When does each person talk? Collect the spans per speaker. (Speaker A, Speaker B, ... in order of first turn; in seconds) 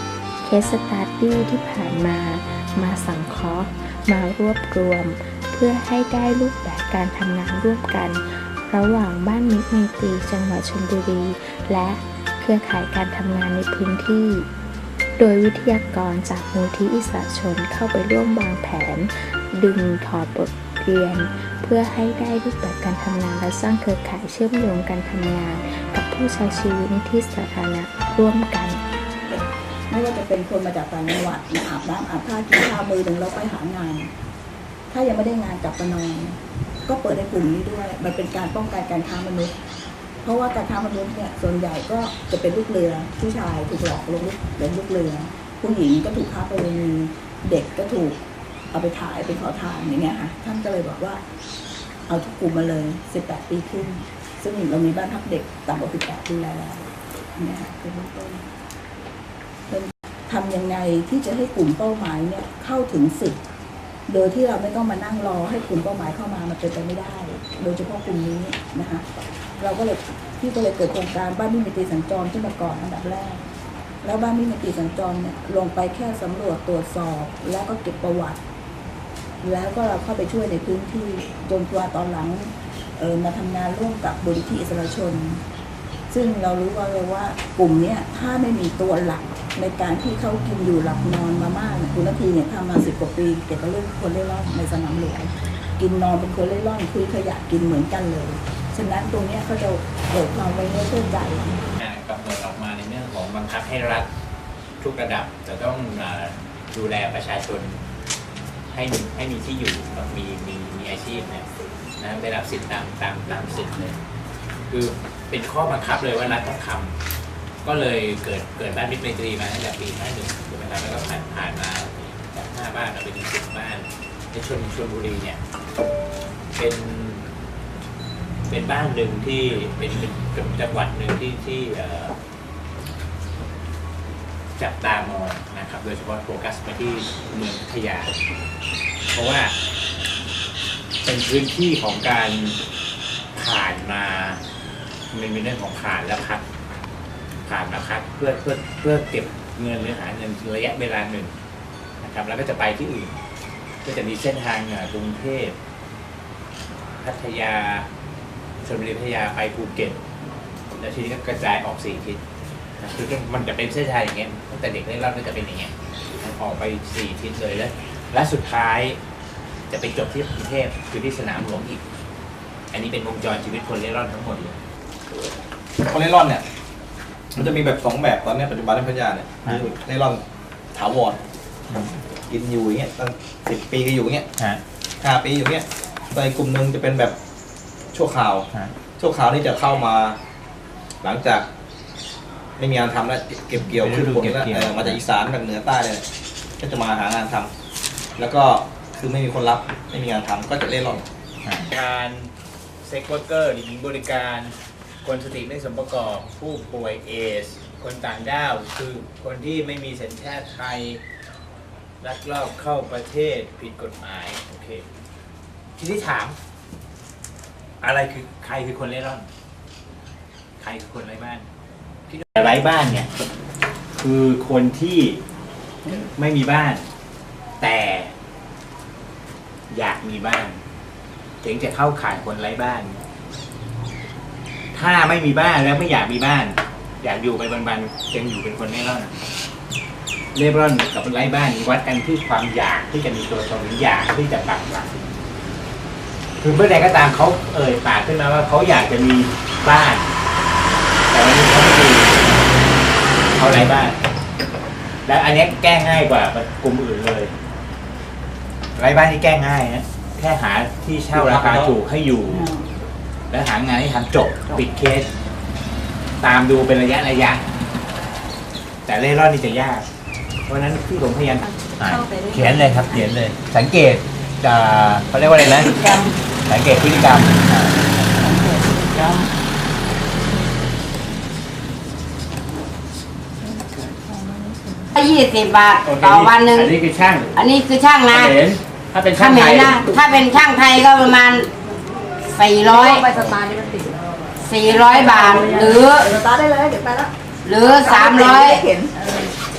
Speaker A: 0.4-14.5, 15.2-28.8
Speaker B: 29.3-34.1, 34.9-39.5, 40.2-48.2, 48.7-51.2, 52.1-58.5, 59.7-63.4, 64.1-69.0, 69.6-73.4, 74.0-78.4, 79.4-85.4, 86.1-101.6, 295.1-297.1, 297.6-299.2
Speaker C: 101.8-104.1, 104.8-107.8, 108.7-111.5, 112.0-114.0, 114.7-117.0, 117.6-125.4, 126.6-127.2, 128.5-132.2, 134.6-138.1, 139.1-139.5, 141.0-142.6, 143.3-144.4, 145.1-146.4, 147.4-151.3, 152.0-153.2, 153.8-155.6, 157.0-157.9, 158.6-160.0, 160.8-162.2, 162.8-169.0, 169.7-171.8, 172.7-174.6, 179.4-179.7, 181.7-182.0, 193.6-195.0, 201.4-202.3, 202.8-211.0, 212.0-214.9, 215.8-216.4, 217.8-219.3, 220.6-221.5, 222.1-223.1, 224.0-225.2, 225.8-226.9, 227.6-228.1, 229.7-230.6, 231.4-233.1, 234.7-239.1, 240.3-245.0, 246.4-250.1, 251.1-252.2, 253.3-254.0, 255.1-257.3, 258.8-262.5, 263.3-265.1, 266.2-267.5, 268.9-269.9, 270.4-277.8, 285.8-287.4, 288.1-289.9, 293.1-293.6
Speaker D: 175.8-176.4, 177.3-180.2, 180.7-181.2, 182.3-184.3, 185.0-187.2, 187.9-190.2, 191.0-191.5, 192.6-196.1, 196.6-197.5, 198.2-201.1, 261.1-261.8
Speaker E: 284.9-286.7, 287.3-288.4, 289.1-291.5, 292.2-293.2, 294.4-296.1, 297.4-298.7